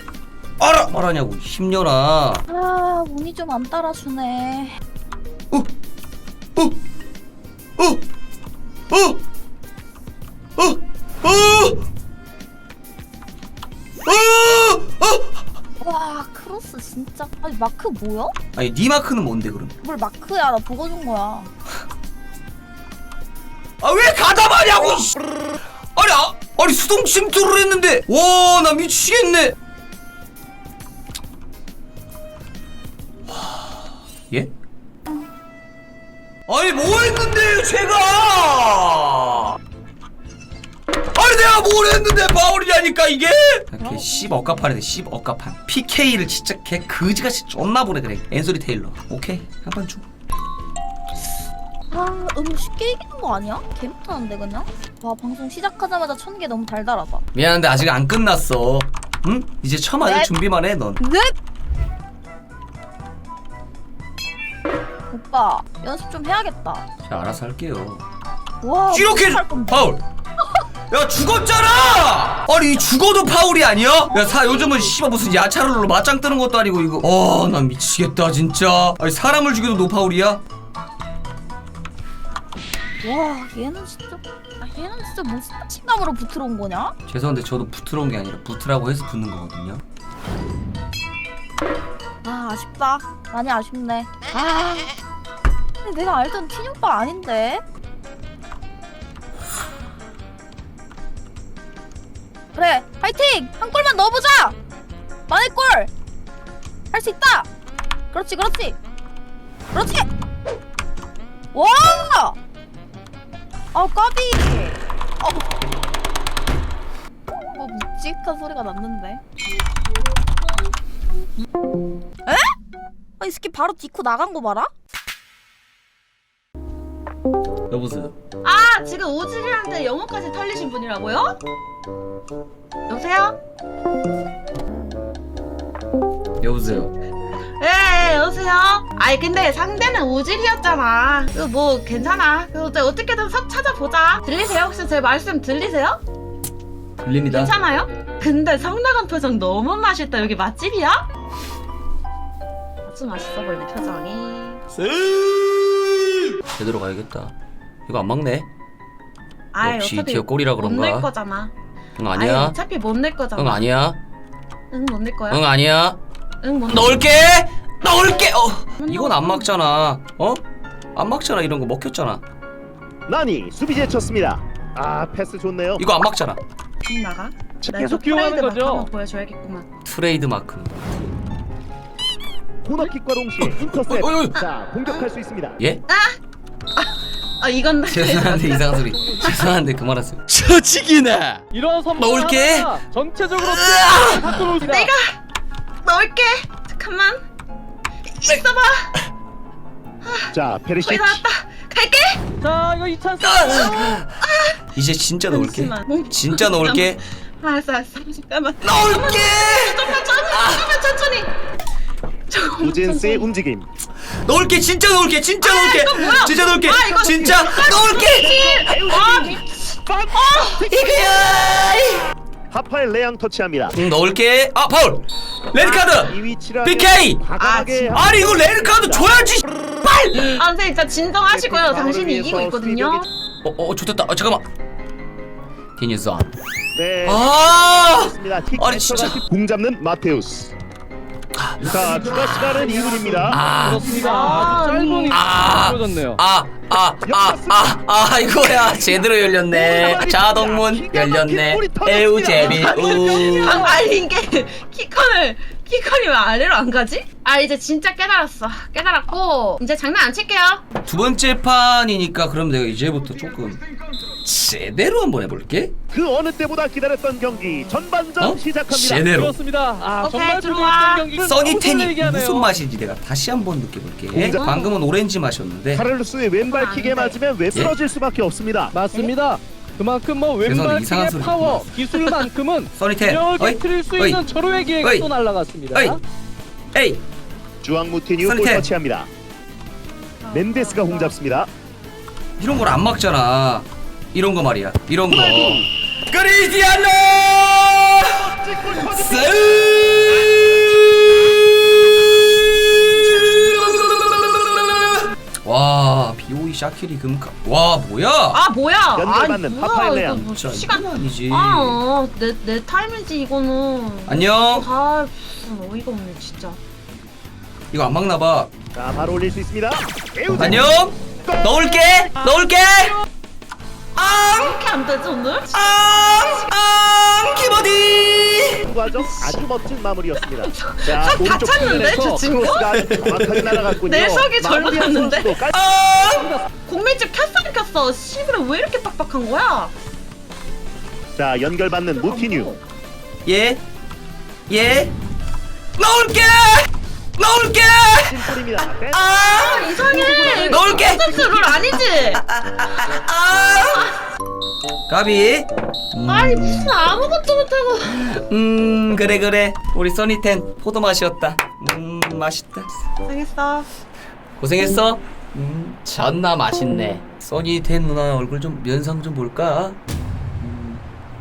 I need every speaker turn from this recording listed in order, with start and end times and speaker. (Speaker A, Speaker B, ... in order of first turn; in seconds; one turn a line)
Speaker A: 0.6-2.4
Speaker B: 2.5-4.8
Speaker A: 8.9-9.2
Speaker A: 10.6-11.8
Speaker A: 14.1-15.4
Speaker B: 15.8-18.4
Speaker A: 18.6-19.8
Speaker B: 19.8-21.5
Speaker A: 23.8-25.2
Speaker A: 25.9-29.6
Speaker A: 33.3-34.5
Speaker A: 36.5-39.6
Speaker A: 41.1-50.1
Speaker B: 43.8-44.6
Speaker B: 51.9-57.2
Speaker A: 57.3-61.0
Speaker B: 60.0-60.3
Speaker B: 61.0-61.3
Speaker B: 65.1-66.9
Speaker A: 67.1-68.0
Speaker B: 68.6-69.8
Speaker A: 68.9-70.0
Speaker A: 70.9-80.4
Speaker B: 74.1-75.0
Speaker B: 83.0-87.0
Speaker A: 87.1-89.8
Speaker B: 92.2-94.9
Speaker B: 95.8-97.6
Speaker B: 102.5-104.6
Speaker B: 105.3-105.9
Speaker B: 106.9-107.5
Speaker B: 108.1-108.8
Speaker B: 109.7-110.1
Speaker B: 111.5-112.4
Speaker B: 113.7-115.6
Speaker B: 117.3-119.2
Speaker B: 123.2-124.7
Speaker A: 127.7-128.2
Speaker C: 128.4-131.4
Speaker C: 132.9-133.4
Speaker A: 136.4-136.9
Speaker C: 137.6-146.0
Speaker A: 147.0-147.5
Speaker C: 147.3-151.1
Speaker C: 152.9-154.6
Speaker A: 154.8-155.6
Speaker A: 156.4-157.3
Speaker A: 157.9-158.5
Speaker C: 159.5-161.5
Speaker A: 159.6-161.1
Speaker A: 162.0-162.6
Speaker C: 162.1-163.7
Speaker A: 163.4-164.0
Speaker C: 164.7-165.4
Speaker A: 165.3-166.0
Speaker C: 166.4-167.0
Speaker A: 166.7-170.4
Speaker C: 168.8-169.5
Speaker A: 170.9-172.2
Speaker D: 173.1-175.8
Speaker A: 175.8-176.4
Speaker C: 176.8-179.7
Speaker D: 177.6-177.9
Speaker E: 177.8-178.9
Speaker A: 179.8-181.1
Speaker D: 182.6-185.6
Speaker A: 183.4-184.4
Speaker C: 184.4-185.0
Speaker C: 185.9-186.2
Speaker C: 186.8-189.5
Speaker A: 187.8-191.4
Speaker E: 191.5-194.9
Speaker A: 192.0-192.8
Speaker A: 193.3-194.6
Speaker C: 194.6-195.2
Speaker C: 195.8-197.2
Speaker C: 198.1-198.9
Speaker C: 200.0-202.2
Speaker D: 200.3-201.2
Speaker E: 202.4-203.6
Speaker A: 203.2-204.1
Speaker C: 203.4-204.6
Speaker A: 204.7-207.0
Speaker C: 205.3-211.3
Speaker A: 208.6-210.8
Speaker C: 212.3-213.3
Speaker D: 212.6-213.7
Speaker A: 214.1-218.4
Speaker C: 215.4-219.5
Speaker D: 216.7-221.3
Speaker C: 220.1-220.7
Speaker A: 220.6-222.1
Speaker D: 222.5-223.8
Speaker A: 223.7-227.2
Speaker D: 225.7-229.1
Speaker C: 227.4-228.0
Speaker A: 227.9-230.4
Speaker C: 230.2-233.1
Speaker D: 231.3-233.1
Speaker A: 233.4-234.4
Speaker A: 235.8-236.3
Speaker D: 236.8-240.5
Speaker A: 237.0-239.2
Speaker A: 241.4-242.6
Speaker D: 241.6-243.4
Speaker E: 242.7-246.2
Speaker A: 243.3-244.1
Speaker C: 243.8-245.2
Speaker A: 245.1-253.7
Speaker D: 247.1-247.7
Speaker D: 249.5-253.8
Speaker C: 252.4-260.6
Speaker A: 260.9-263.6
Speaker A: 264.2-265.8
Speaker D: 265.9-269.1
Speaker A: 268.2-269.4
Speaker E: 269.0-272.5
Speaker C: 270.0-271.1
Speaker A: 271.2-275.9
Speaker D: 274.1-274.5
Speaker C: 274.3-274.8
Speaker D: 275.7-278.7
Speaker C: 276.4-277.2
Speaker E: 278.7-286.0
Speaker A: 280.4-282.1
Speaker A: 282.7-284.2
Speaker A: 284.8-285.1
Speaker A: 285.7-286.0
Speaker A: 286.7-287.0
Speaker D: 287.6-289.1
Speaker A: 288.2-288.7
Speaker C: 290.2-291.2
Speaker D: 290.3-291.5
Speaker A: 292.4-308.4
Speaker D: 295.1-295.7
Speaker D: 298.2-299.6
Speaker C: 308.3-316.6
Speaker D: 308.9-310.3
Speaker A: 310.1-311.8
Speaker A: 314.1-314.7
Speaker A: 317.7-318.5
Speaker D: 318.7-320.7
Speaker A: 320.3-323.0
Speaker D: 321.2-321.5
Speaker A: 324.0-324.6
Speaker C: 324.1-326.4
Speaker A: 325.5-328.6
Speaker D: 328.6-335.6
Speaker C: 328.9-329.4
Speaker C: 330.2-332.8
Speaker E: 331.5-332.5
Speaker A: 332.7-333.7
Speaker C: 333.7-335.4
Speaker A: 335.5-336.4
Speaker E: 336.1-336.4
Speaker C: 336.6-339.7
Speaker D: 341.1-342.6
Speaker C: 341.9-342.6
Speaker A: 343.3-343.6
Speaker A: 344.5-344.9
Speaker A: 345.8-353.9
Speaker D: 348.0-350.9
Speaker C: 349.1-352.2
Speaker A: 354.9-356.7
Speaker C: 356.1-358.0
Speaker A: 357.9-362.8
Speaker C: 363.1-363.7
Speaker A: 364.4-369.8
Speaker A: 370.4-370.8